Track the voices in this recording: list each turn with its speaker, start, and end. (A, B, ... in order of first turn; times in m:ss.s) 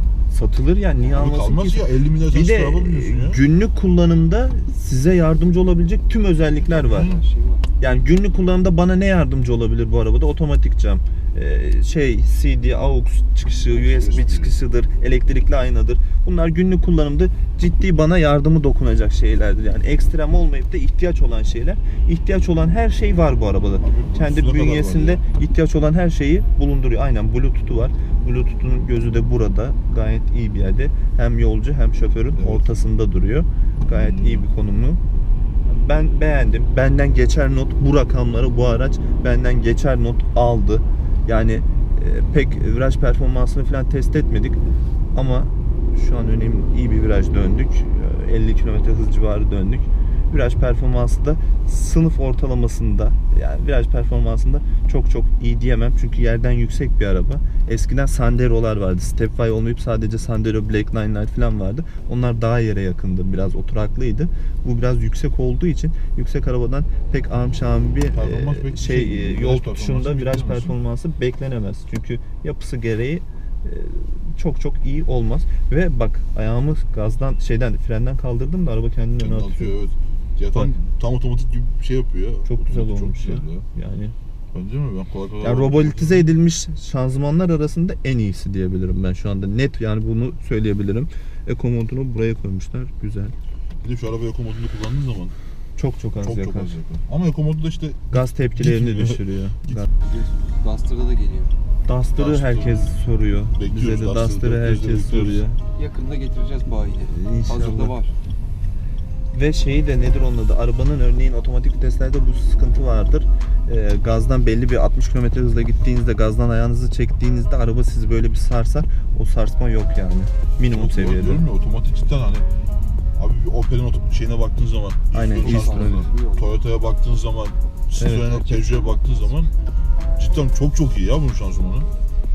0:00.3-0:07.1 A
0:01.0-0:01.3 B
0:01.1-0:03.4 C
0:06.6-0:07.3 C
0:06.8-0:07.7 B
0:07.8-0:35.0 A
0:13.7-0:14.6 C
0:23.8-0:25.2 C
0:32.4-0:32.8 C
0:33.9-0:34.5 C
0:35.7-0:44.6 A
0:45.2-1:19.8 A
1:08.1-1:10.8 C
1:19.2-1:23.7 C
1:22.5-1:24.2 A
1:24.5-1:26.3 C
1:25.4-1:33.4 A
1:33.8-1:35.4 C
1:35.8-1:36.8 A
1:36.2-1:39.9 C
1:38.1-1:39.9 A
1:40.0-1:41.6 B
1:41.9-1:45.6 A
1:42.2-1:42.9 C
1:43.5-1:45.5 C
1:45.8-1:48.1 B
1:47.1-1:48.0 A
1:49.3-2:01.4 A
2:00.7-2:02.5 C
2:03.2-2:09.5 C
2:05.1-2:06.1 A
2:05.4-2:06.6 B
2:08.0-2:08.7 A
2:08.5-2:09.4 B
2:10.2-2:11.9 C